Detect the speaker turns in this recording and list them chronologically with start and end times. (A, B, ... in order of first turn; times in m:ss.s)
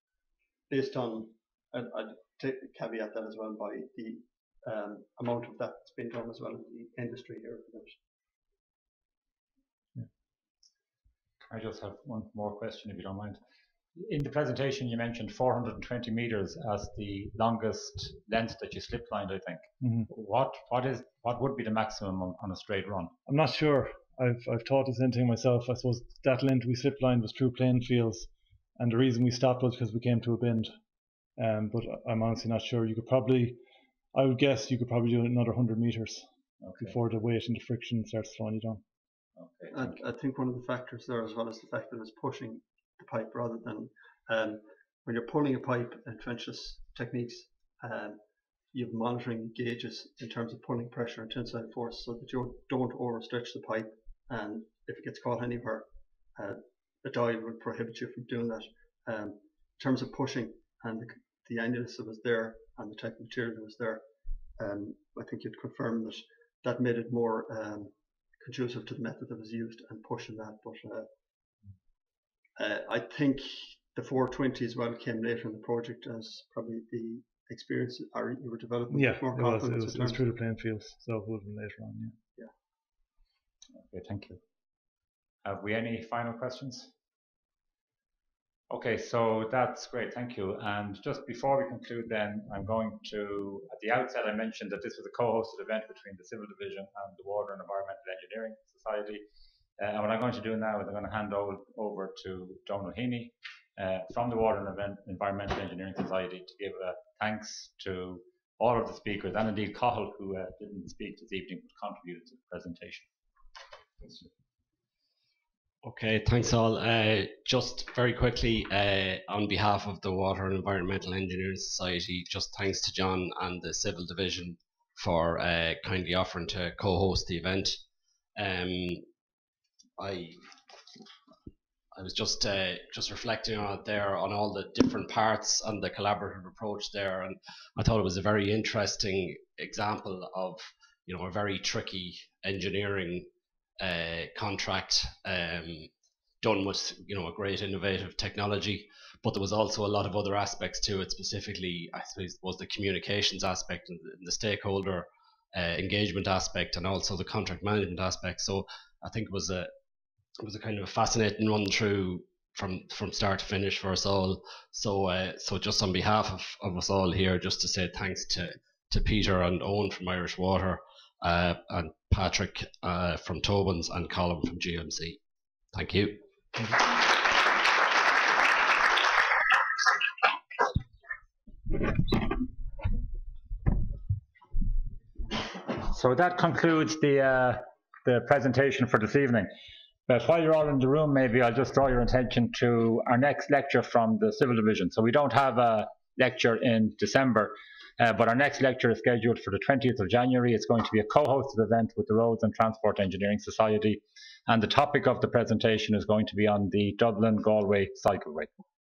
0:00.7-0:08.0 A
0:11.5-0:13.4 B
0:14.0-0:23.1 B
0:19.8-0:20.1 C
0:23.3-0:30.7 C
0:31.4-0:33.6 C
0:34.1-0:38.8 C
0:36.6-0:37.0 B
0:39.4-0:40.0 B
0:39.7-0:48.2 A
0:48.7-1:04.0 A
1:04.6-1:11.1 A
1:12.6-1:20.2 A
1:18.9-1:22.1 C
1:23.7-1:24.4 B
1:25.4-1:26.9 B
1:28.7-1:39.2 B
1:39.8-1:53.1 B
1:54.0-1:54.3 B
1:55.8-2:07.8 D
2:08.4-2:09.1 D
2:10.0-2:10.5 D
2:11.9-2:23.3 D
2:23.8-2:39.7 D
2:40.4-2:55.2 D
2:55.7-2:56.2 D
3:05.8-3:09.5 B
3:10.1-3:28.5 B